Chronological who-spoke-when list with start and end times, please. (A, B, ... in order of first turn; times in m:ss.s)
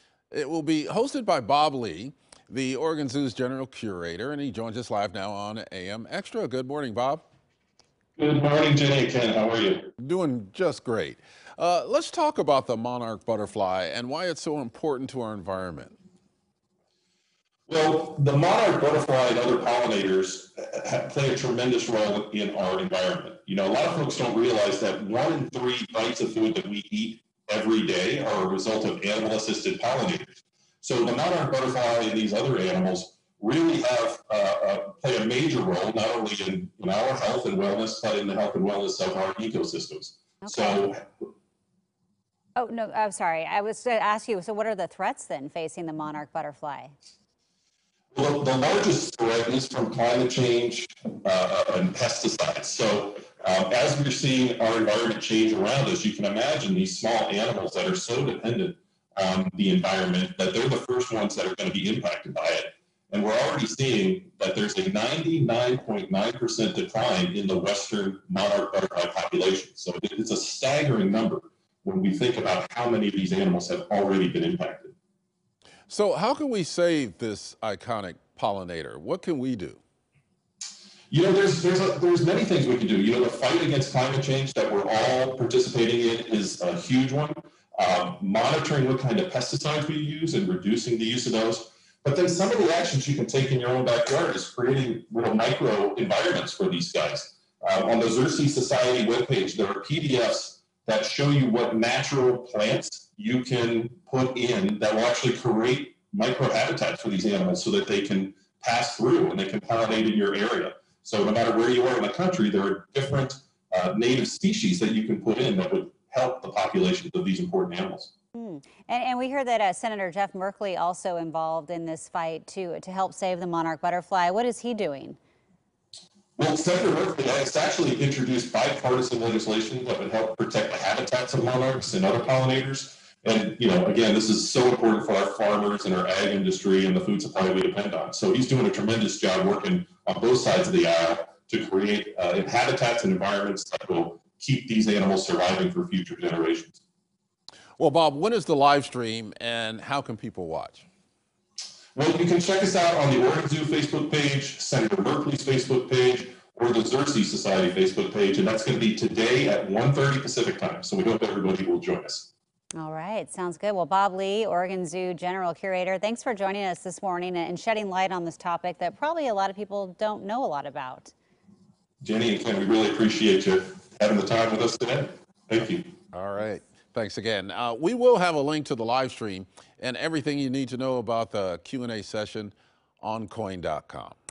0:00.3-0:07.2 A
0:08.2-0:09.9 B
0:10.0-0:15.9 A
0:17.7-0:41.3 B
0:40.5-0:40.7 C
0:42.6-0:46.9 C
0:48.1-1:15.0 B
1:15.9-1:19.8 A
1:21.1-1:58.1 B
1:58.4-2:05.2 C
2:06.4-2:26.8 B
2:27.8-2:30.8 A
2:32.0-2:42.3 B
2:42.8-2:51.1 C
2:52.0-2:55.9 B
2:56.1-3:04.2 A